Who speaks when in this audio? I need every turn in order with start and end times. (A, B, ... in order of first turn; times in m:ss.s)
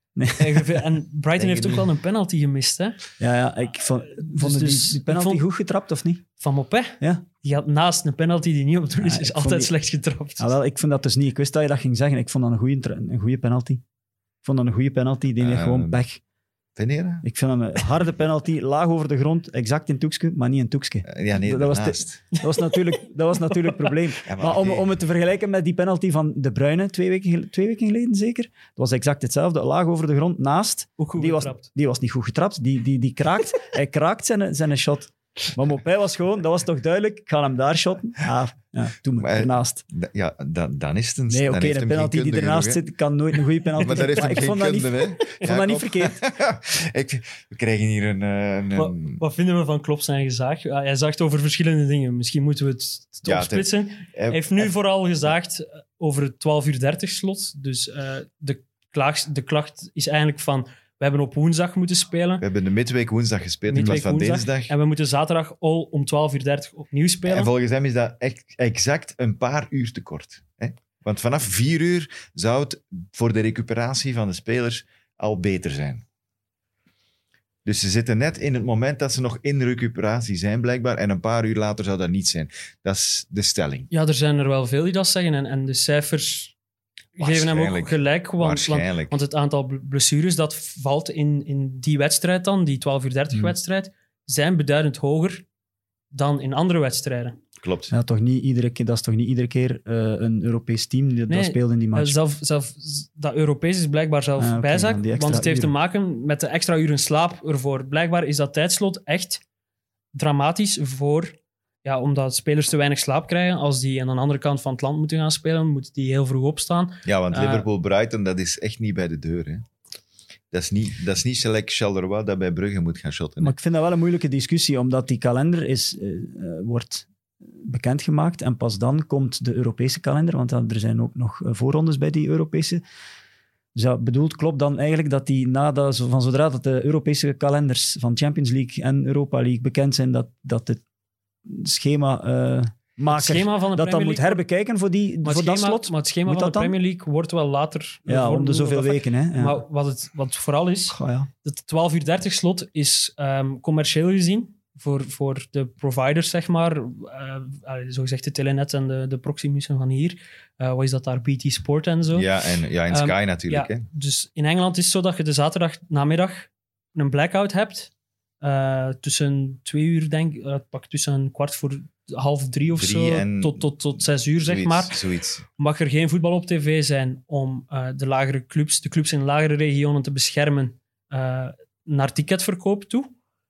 0:00.2-0:00.6 A
0:00.4-0:03.0 B
0:01.4-0:01.9 C
0:03.2-0:06.2 A
0:04.2-0:05.4 B
0:06.4-0:10.5 B
0:09.0-0:09.7 A
0:10.4-0:13.8 A
0:14.4-0:16.2 A
0:15.4-0:16.0 C
0:16.8-0:17.2 C
0:17.2-0:39.8 A
0:21.1-0:22.2 C
0:24.3-0:24.9 C
0:31.0-0:31.6 B
0:39.2-0:42.8 C
0:41.3-0:46.2 A
0:43.8-0:49.2 C
0:48.8-1:02.4 B
0:53.3-0:54.7 C
1:02.4-1:04.7 C
1:03.7-1:07.5 B
1:07.3-1:16.0 C
1:17.6-1:23.9 C
1:23.9-1:26.6 B
1:27.2-1:35.4 B
1:27.2-1:29.2 C
1:36.1-1:37.4 B
1:37.6-1:37.9 C
1:37.9-1:42.2 A
1:41.3-1:49.4 B
1:44.4-1:45.7 A
1:50.1-1:57.7 B
1:57.0-1:59.6 C
2:00.5-2:03.6 C
2:03.4-2:12.8 A
2:13.8-2:20.8 A
2:21.5-2:26.8 A
2:23.1-2:24.4 B
2:25.2-2:42.3 B
2:28.1-2:29.6 A
2:30.9-2:31.3 A
2:42.1-2:43.9 C
2:42.9-2:47.9 B
2:48.4-2:55.0 B
2:52.7-2:53.7 C
2:54.4-2:55.4 C
2:55.6-3:03.1 B